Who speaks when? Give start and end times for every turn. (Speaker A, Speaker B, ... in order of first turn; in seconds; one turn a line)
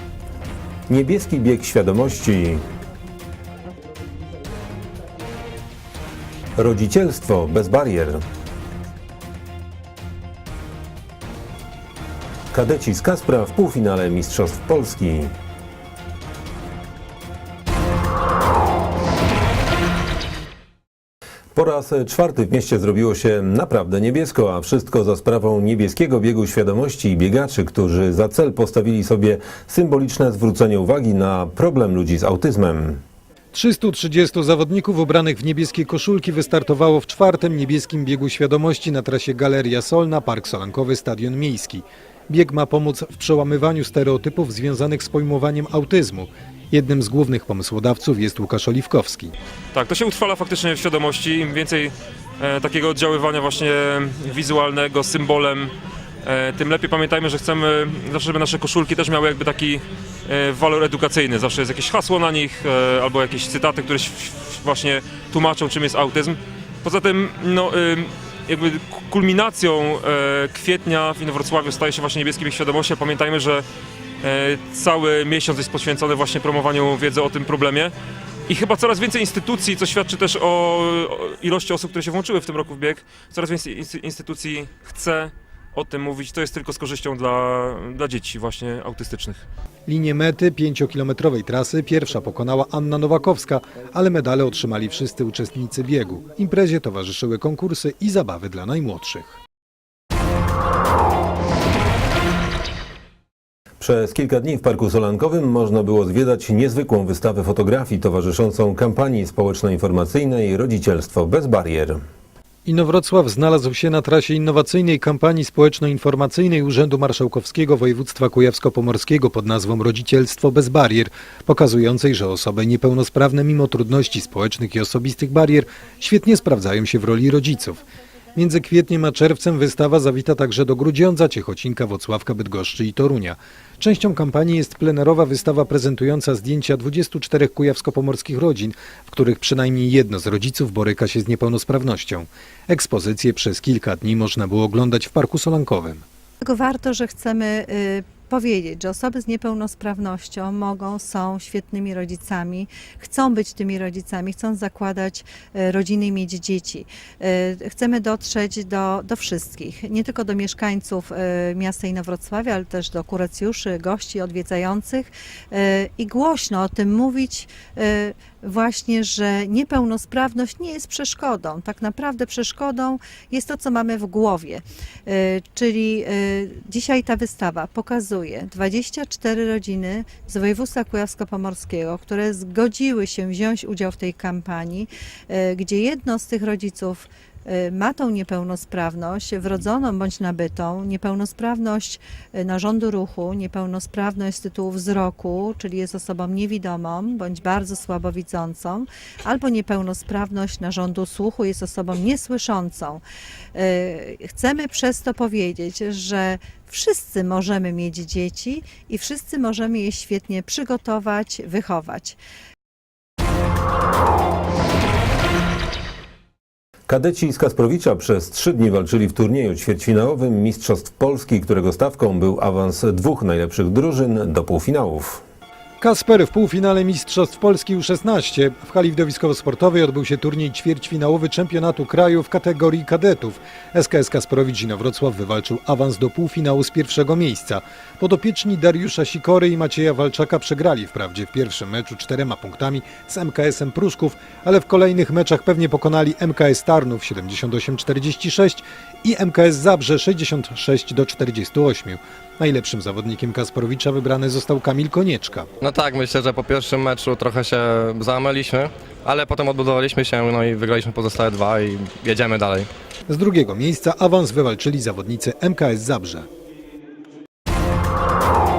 Speaker A: 0.9-2.7
Speaker A: 6.6-8.2
Speaker A: 12.5-15.3
Speaker A: 21.6-33.0
Speaker B: 33.5-49.4
Speaker C: 49.7-73.7
Speaker C: 74.2-77.9
Speaker C: 78.5-89.5
Speaker B: 89.9-99.4
Speaker A: 103.8-112.0
Speaker B: 112.7-127.8
Speaker B: 128.4-146.0
Speaker D: 146.4-203.0
Speaker D: 203.5-212.2
Speaker A: 216.9-225.2
Speaker B: 225.8-255.5
Speaker E: 255.6-262.7
Speaker B: 263.1-266.3